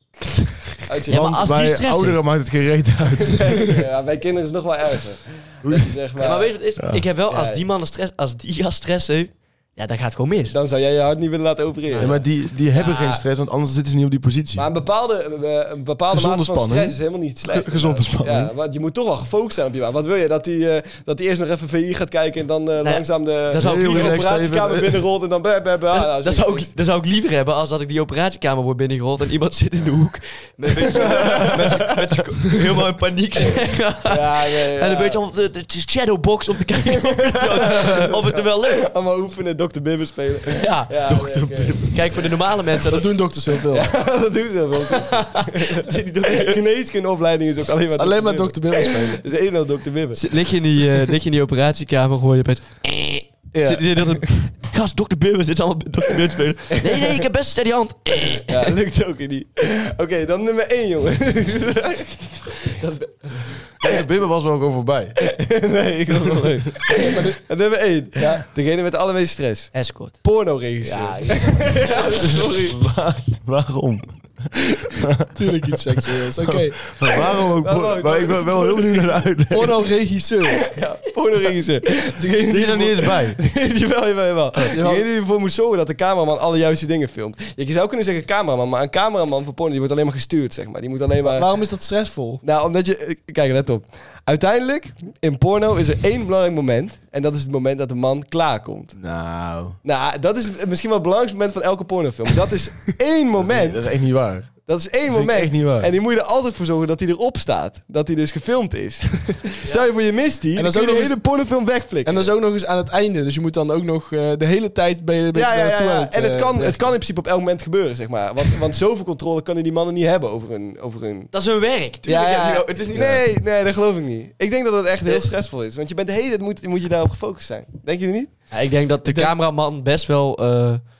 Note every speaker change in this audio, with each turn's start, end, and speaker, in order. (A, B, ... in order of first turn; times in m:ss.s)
0:00.8-0:01.2 A
0:01.1-0:02.2 B
0:01.1-0:03.4 C
0:03.2-0:06.6 A
0:05.6-0:05.9 C
0:06.2-0:10.6 B
0:06.8-0:07.0 C
0:07.3-0:07.6 A
0:10.4-0:13.2 A
0:11.9-0:12.2 B
0:12.0-0:14.7 C
0:14.6-0:26.7 A
0:16.1-0:18.5 C
0:22.8-0:24.3 B
0:23.6-0:25.0 C
0:25.9-0:38.8 B
0:30.8-0:32.0 A
0:34.1-0:35.2 A
0:36.9-0:41.8 A
0:40.5-0:41.3 B
0:41.0-0:42.1 C
0:41.8-0:43.1 B
0:42.9-0:43.9 D
0:43.7-0:50.2 A
0:44.9-0:46.6 B
0:47.9-0:49.2 D
0:50.2-0:58.8 B
0:53.5-0:54.3 A
0:56.8-0:57.2 A
0:58.3-1:04.0 A
1:03.8-1:05.4 C
1:05.4-1:12.8 A
1:07.1-1:07.4 D
1:08.2-1:08.4 D
1:09.7-1:10.2 B
1:10.8-1:12.3 B
1:12.1-1:19.8 C
1:15.3-1:16.9 D
1:17.6-1:19.1 A
1:19.5-1:20.7 D
1:20.6-1:31.7 A
1:22.5-1:23.4 C
1:24.7-1:25.1 D
1:31.2-1:32.4 D
1:32.4-1:39.0 A
1:39.0-1:39.8 C
1:39.8-1:43.8 A
1:43.3-1:45.9 C
1:44.6-1:52.3 A
1:50.5-1:51.2 D
1:52.0-1:56.9 D
1:55.3-2:01.3 A
2:01.3-2:03.2 B
2:02.0-2:08.5 A
2:08.5-2:10.8 B
2:09.0-2:09.3 D